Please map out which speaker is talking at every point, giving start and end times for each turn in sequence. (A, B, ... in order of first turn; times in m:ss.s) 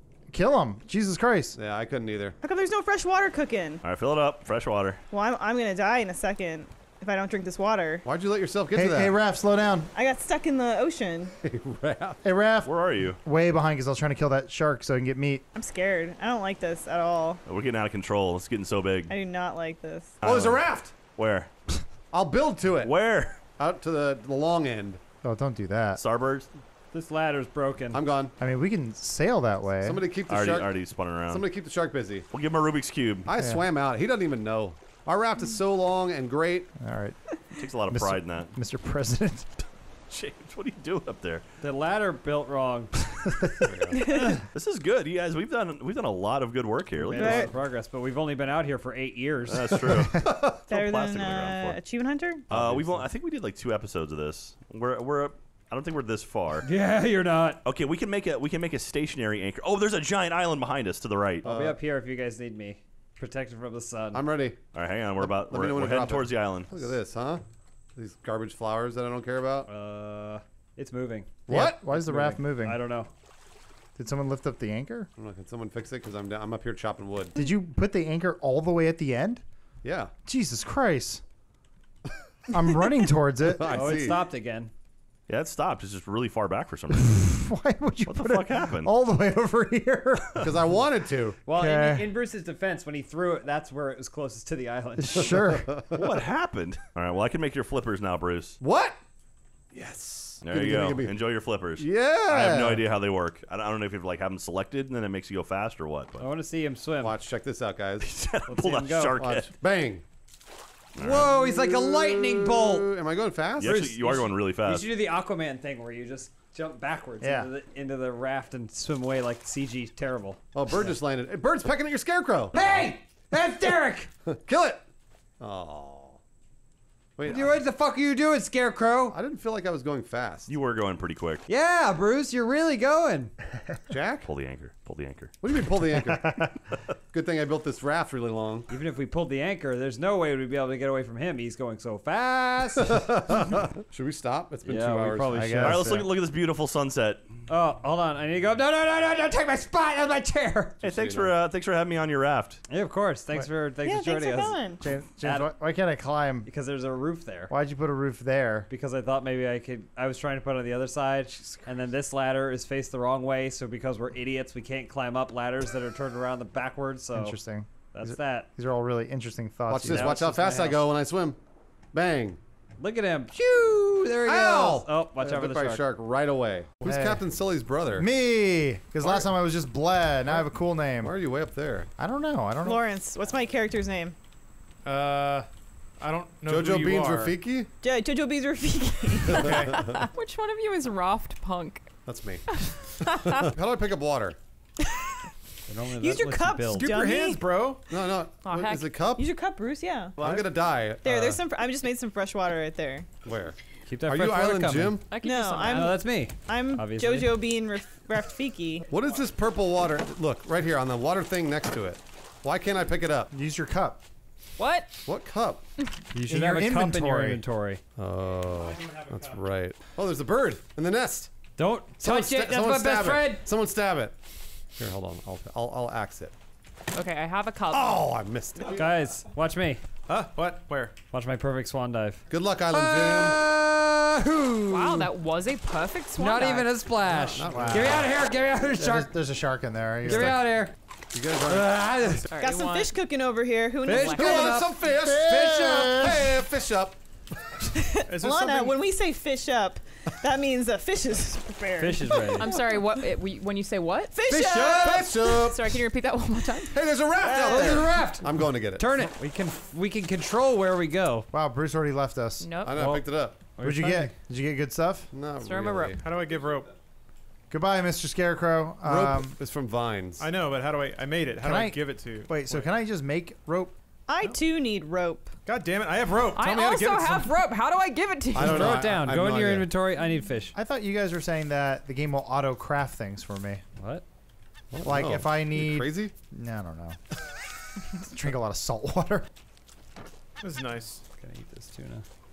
0:00.3-0:01.6 A
0:01.5-0:02.4 B
0:02.4-0:03.8 C
0:03.8-0:05.0 D
0:05.1-0:08.0 C
0:08.0-0:09.1 B
0:08.7-0:09.9 A
0:09.9-0:11.3 C
0:11.4-0:12.2 B
0:12.2-0:15.4 A
0:12.6-0:13.2 D
0:15.5-0:17.4 C
0:17.5-0:19.1 D
0:19.1-0:20.2 C
0:20.2-0:20.6 D
0:20.2-0:20.9 B
0:21.1-0:21.5 D
0:22.1-0:22.9 B
0:22.8-0:23.4 D
0:23.6-0:25.0 B
0:25.2-0:26.0 A
0:26.0-0:26.5 D
0:26.9-0:28.0 E
0:27.9-0:28.3 B
0:28.4-0:30.0 A
0:29.8-0:30.7 B
0:30.3-0:31.4 D
0:31.3-0:32.3 B
0:32.3-0:33.3 D
0:33.2-0:36.7 B
0:33.4-0:33.6 A
0:36.8-0:37.2 A
0:37.5-0:38.5 D
0:37.9-0:39.5 A
0:40.1-0:41.4 D
0:41.6-0:42.9 E
0:43.1-0:43.9 A
0:43.6-0:44.1 B
0:43.9-0:44.4 C
0:44.5-0:47.5 D
0:47.1-0:49.8 E
0:47.2-0:47.5 C
0:49.5-0:51.8 D
0:49.9-0:50.3 A
0:50.2-0:50.6 B
0:50.7-0:52.4 C
0:52.5-0:56.6 D
0:52.5-0:53.0 B
0:56.6-0:57.6 E
0:57.6-1:01.4 D
1:01.4-1:01.8 B
1:01.4-1:04.3 E
1:04.1-1:04.6 B
1:04.7-1:06.7 D
1:05.2-1:07.4 B
1:08.0-1:09.7 B
1:09.7-1:13.1 E
1:11.5-1:12.3 B
1:11.5-1:12.8 A
1:14.0-1:15.1 A
1:15.2-1:17.4 B
1:17.4-1:19.4 A
1:19.8-1:20.1 B
1:20.2-1:21.2 A
1:22.5-1:24.0 A
1:23.4-1:24.2 B
1:23.7-1:24.7 E
1:25.3-1:27.3 D
1:27.1-1:30.5 A
1:28.1-1:28.9 D
1:30.4-1:31.4 B
1:31.4-1:35.4 E
1:31.5-1:32.1 A
1:35.0-1:35.7 A
1:35.4-1:36.0 B
1:35.9-1:38.6 D
1:38.6-1:39.0 B
1:39.7-1:41.1 B
1:40.4-1:46.2 D
1:41.8-1:42.6 B
1:42.3-1:42.8 A
1:46.2-1:47.2 E
1:47.0-1:48.1 B
1:48.0-1:49.5 D
1:48.5-1:49.2 E
1:49.2-1:50.0 B
1:51.0-1:51.3 D
1:51.0-1:52.9 E
1:51.1-1:53.8 B
1:53.6-1:54.9 D
1:53.6-2:00.9 E
1:57.2-1:57.5 A
2:00.5-2:02.8 B
2:02.5-2:04.1 E
2:04.3-2:04.8 B
2:05.4-2:06.2 B
2:07.2-2:07.6 B
2:07.3-2:09.2 E
2:09.1-2:10.5 B
2:10.5-2:11.4 D
2:11.5-2:13.3 E
2:13.9-2:14.3 B
2:14.2-2:15.3 D
2:15.4-2:16.5 B
2:16.1-2:16.5 A
2:17.1-2:18.7 B
2:18.7-2:23.0 E
2:22.8-2:25.6 B
2:24.7-2:25.9 E
2:25.3-2:26.1 A
2:25.6-2:27.3 D
2:27.5-2:30.8 E
2:30.8-2:31.3 B
2:30.8-2:32.6 D
2:32.7-2:34.6 E
2:33.8-2:34.8 C
2:34.8-2:36.5 A
2:35.2-2:35.5 E
2:36.4-2:37.5 E
2:37.5-2:38.7 A
2:38.7-2:47.4 E
2:47.1-2:50.8 A
2:47.9-2:48.5 E
2:49.7-2:51.4 B
2:49.9-2:50.7 E
2:51.9-2:52.4 B
2:52.8-2:55.8 E
2:54.2-2:58.0 B
2:56.8-2:57.2 A
2:58.0-3:01.1 A
2:59.0-2:59.3 B
3:01.0-3:01.9 B
3:02.0-3:02.8 A
3:02.6-3:04.2 C
3:04.8-3:05.5 F
3:06.0-3:07.4 F
3:06.4-3:07.7 B
3:07.8-3:09.6 C
3:09.3-3:09.8 B
3:09.5-3:11.9 G
3:12.0-3:12.4 B
3:12.5-3:13.5 G
3:13.0-3:14.4 B
3:14.8-3:15.1 C
3:15.7-3:16.9 E
3:16.0-3:17.4 C
3:16.7-3:17.9 F
3:17.9-3:19.2 B
3:18.4-3:19.0 G
3:19.2-3:20.2 C
3:20.2-3:21.4 B
3:20.2-3:20.5 F
3:21.0-3:23.1 C
3:23.2-3:25.1 B
3:23.9-3:25.0 E
3:25.1-3:26.0 G
3:25.2-3:28.9 C
3:25.6-3:27.4 E
3:28.9-3:33.3 B
3:33.3-3:34.0 A
3:34.6-3:35.0 G
3:35.0-3:35.6 B
3:36.1-3:37.4 A
3:36.3-3:37.8 E
3:38.0-3:41.3 B
3:41.6-3:43.4 E
3:42.0-3:44.2 B
3:44.8-3:46.3 B
3:46.9-3:48.1 G
3:47.7-3:49.1 B
3:48.6-3:49.8 E
3:50.1-3:50.9 F
3:51.1-3:55.1 E
3:52.3-3:53.4 B
3:54.7-3:56.8 G
3:56.2-3:59.1 E
3:57.0-3:58.2 B
3:57.4-3:58.1 A
3:58.8-4:00.4 A
4:00.0-4:00.7 E
4:00.1-4:00.4 B
4:01.1-4:01.8 B
4:01.4-4:02.3 E
4:02.3-4:02.9 G
4:02.4-4:04.5 C
4:03.8-4:04.7 E
4:03.8-4:04.6 G
4:04.1-4:07.0 B
4:04.8-4:06.4 A
4:07.7-4:12.9 C
4:08.1-4:08.8 F
4:11.8-4:12.5 E
4:12.3-4:14.2 G
4:14.1-4:15.3 C
4:14.2-4:15.1 E
4:14.8-4:15.8 B
4:15.3-4:16.8 G
4:16.7-4:19.0 B
4:17.2-4:21.3 E
4:21.3-4:22.5 A
4:22.4-4:22.8 G
4:22.6-4:23.4 B
4:22.7-4:24.1 E
4:23.6-4:25.1 A
4:25.1-4:26.4 B
4:25.4-4:26.0 G
4:26.0-4:26.7 F
4:27.5-4:29.4 A
4:28.8-4:30.3 B
4:30.2-4:32.7 F
4:31.4-4:33.8 A
4:34.1-4:35.3 C
4:35.4-4:37.3 F
4:36.3-4:38.8 G
4:38.3-4:39.7 B
4:38.4-4:40.6 E
4:40.5-4:43.6 A
4:43.8-4:44.0 E
4:44.7-4:46.1 B
4:44.8-4:47.0 A
4:47.9-4:49.3 A
4:50.4-4:51.0 F
4:51.2-4:52.0 E